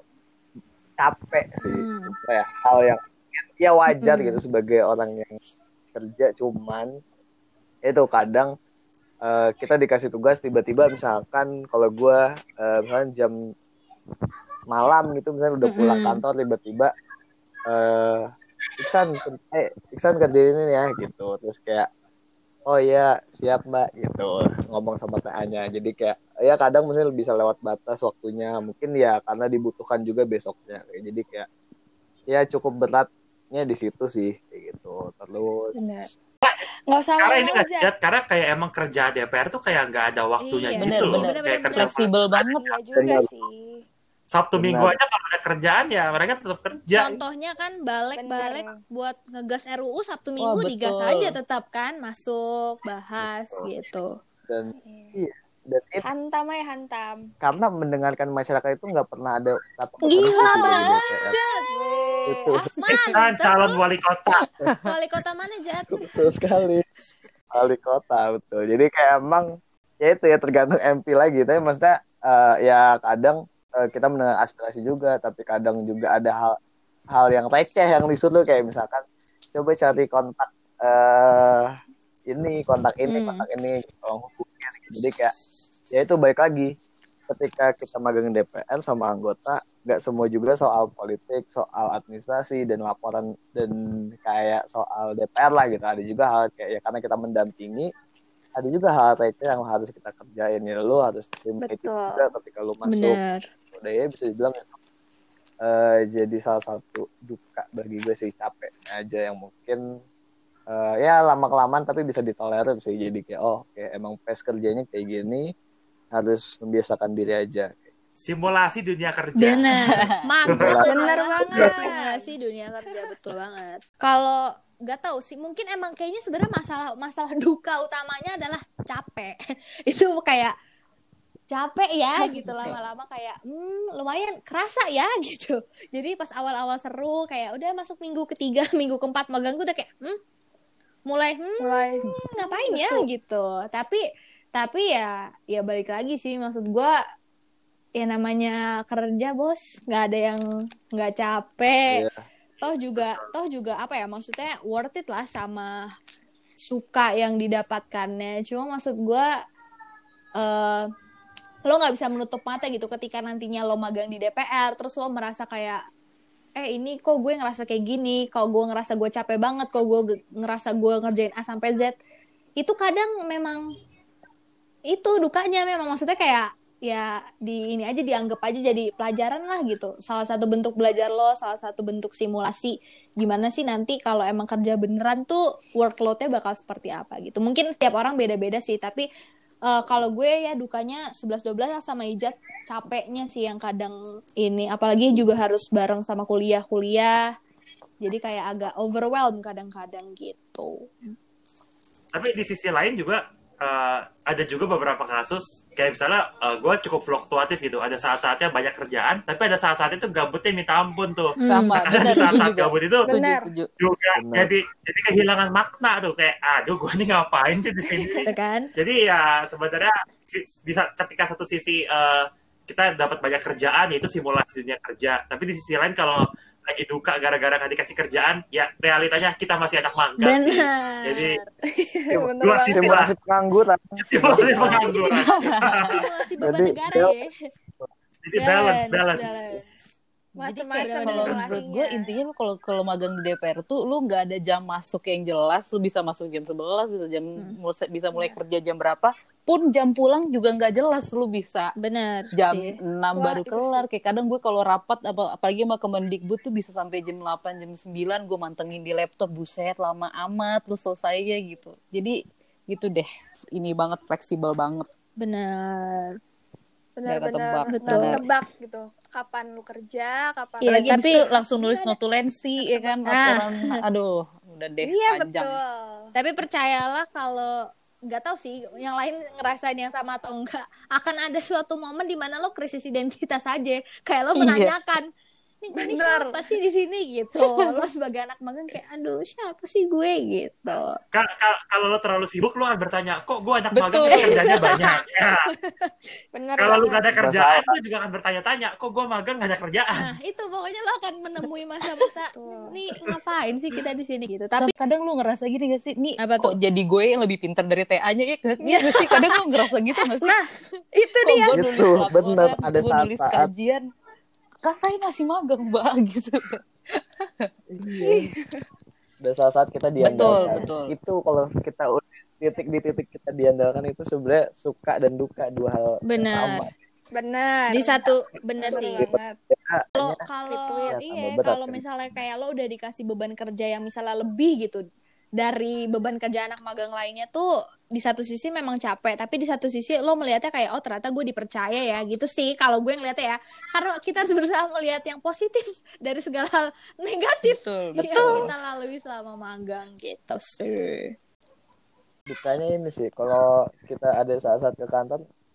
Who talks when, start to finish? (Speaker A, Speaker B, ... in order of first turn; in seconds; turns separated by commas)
Speaker A: 1.0-5.3, Speaker B: 1.6-2.2, Speaker B: 3.9-4.4, Speaker A: 5.9-6.9, Speaker A: 7.8-8.5, Speaker A: 9.2-13.3, Speaker A: 14.7-16.9, Speaker B: 15.6-16.2, Speaker A: 17.7-18.3, Speaker A: 18.8-21.9, Speaker A: 22.7-31.5, Speaker A: 32.3-35.7, Speaker C: 35.7-36.1, Speaker C: 36.9-37.9, Speaker D: 37.2-42.6, Speaker B: 40.5-41.9, Speaker E: 40.8-42.7, Speaker C: 42.6-43.8, Speaker A: 42.9-43.3, Speaker D: 44.3-47.2, Speaker A: 44.5-45.0, Speaker B: 46.9-54.2, Speaker C: 48.2-48.8, Speaker E: 50.4-51.4, Speaker A: 53.2-53.7, Speaker A: 54.5-56.0, Speaker C: 54.8-55.2, Speaker C: 56.0-57.2, Speaker A: 57.4-61.4, Speaker B: 60.0-61.6, Speaker C: 61.7-62.7, Speaker A: 62.3-62.7, Speaker B: 62.8-63.8, Speaker D: 63.1-64.4, Speaker E: 64.4-64.8, Speaker B: 64.8-66.0, Speaker A: 65.9-66.8, Speaker A: 67.5-69.5, Speaker A: 70.0-76.5, Speaker A: 77.1-79.0, Speaker A: 79.5-81.7, Speaker A: 82.3-85.3, Speaker B: 83.0-83.4, Speaker A: 85.9-86.7, Speaker A: 87.3-97.9, Speaker A: 98.6-103.2, Speaker C: 101.6-102.3, Speaker B: 102.9-103.5, Speaker A: 103.7-104.7, Speaker A: 105.6-109.8, Speaker A: 110.7-115.5, Speaker A: 116.1-117.9, Speaker D: 118.2-120.8, Speaker B: 119.4-129.3, Speaker E: 119.8-120.0, Speaker A: 120.4-120.9, Speaker C: 120.8-122.3, Speaker B: 129.9-130.5, Speaker B: 131.5-140.2, Speaker E: 132.2-132.8, Speaker B: 141.1-144.0, Speaker C: 141.6-143.1, Speaker B: 144.5-146.9, Speaker B: 148.0-150.4, Speaker B: 150.9-152.0, Speaker A: 151.9-152.2, Speaker B: 152.6-155.9, Speaker B: 156.6-159.3, Speaker B: 160.4-160.9, Speaker B: 161.7-165.8, Speaker B: 166.6-172.0, Speaker B: 172.6-173.6, Speaker B: 174.9-189.1, Speaker B: 189.7-197.2, Speaker B: 198.0-201.2, Speaker D: 202.1-213.1, Speaker B: 211.4-212.3, Speaker E: 211.4-213.7, Speaker C: 213.0-213.5, Speaker D: 213.8-231.3, Speaker A: 214.1-214.5, Speaker C: 217.9-218.3, Speaker B: 218.2-218.7, Speaker B: 230.2-231.5, Speaker C: 231.6-233.0, Speaker A: 232.1-234.9, Speaker D: 232.4-233.1, Speaker D: 234.1-235.9, Speaker B: 234.3-237.4, Speaker E: 235.1-235.8, Speaker A: 236.4-237.2, Speaker D: 238.2-239.6, Speaker B: 238.4-239.7, Speaker C: 240.4-242.1, Speaker E: 240.4-251.7, Speaker B: 240.8-241.6, Speaker B: 251.8-252.8, Speaker E: 252.3-262.2, Speaker C: 253.2-253.8, Speaker E: 262.7-264.9, Speaker B: 265.2-266.2, Speaker C: 267.0-271.3, Speaker E: 267.1-268.2, Speaker B: 267.7-268.2, Speaker B: 270.6-271.2, Speaker E: 270.6-275.6, Speaker B: 273.1-273.6, Speaker C: 274.8-276.1, Speaker B: 276.1-285.0, Speaker E: 284.3-284.8, Speaker B: 285.6-291.0, Speaker C: 285.7-286.4, Speaker D: 291.1-295.5, Speaker E: 293.7-294.4, Speaker B: 294.1-295.9, Speaker C: 296.3-297.1, Speaker D: 296.6-300.1, Speaker A: 297.2-297.7, Speaker B: 299.9-304.7, Speaker C: 302.3-302.8, Speaker E: 304.6-310.4, Speaker B: 306.2-306.5, Speaker B: 308.7-309.4, Speaker C: 310.2-311.6, Speaker E: 311.2-313.9, Speaker A: 311.5-313.5, Speaker E: 314.6-316.6, Speaker E: 317.2-317.5, Speaker A: 317.7-318.2, Speaker C: 318.0-318.6, Speaker A: 319.2-326.7, Speaker E: 320.0-320.9, Speaker B: 326.1-326.6, Speaker C: 327.1-329.2, Speaker B: 327.7-329.4, Speaker A: 328.9-330.2, Speaker B: 330.0-351.1, Speaker C: 330.5-331.0, Speaker A: 330.9-331.8, Speaker E: 347.4-348.5, Speaker A: 348.2-348.5, Speaker A: 352.3-355.2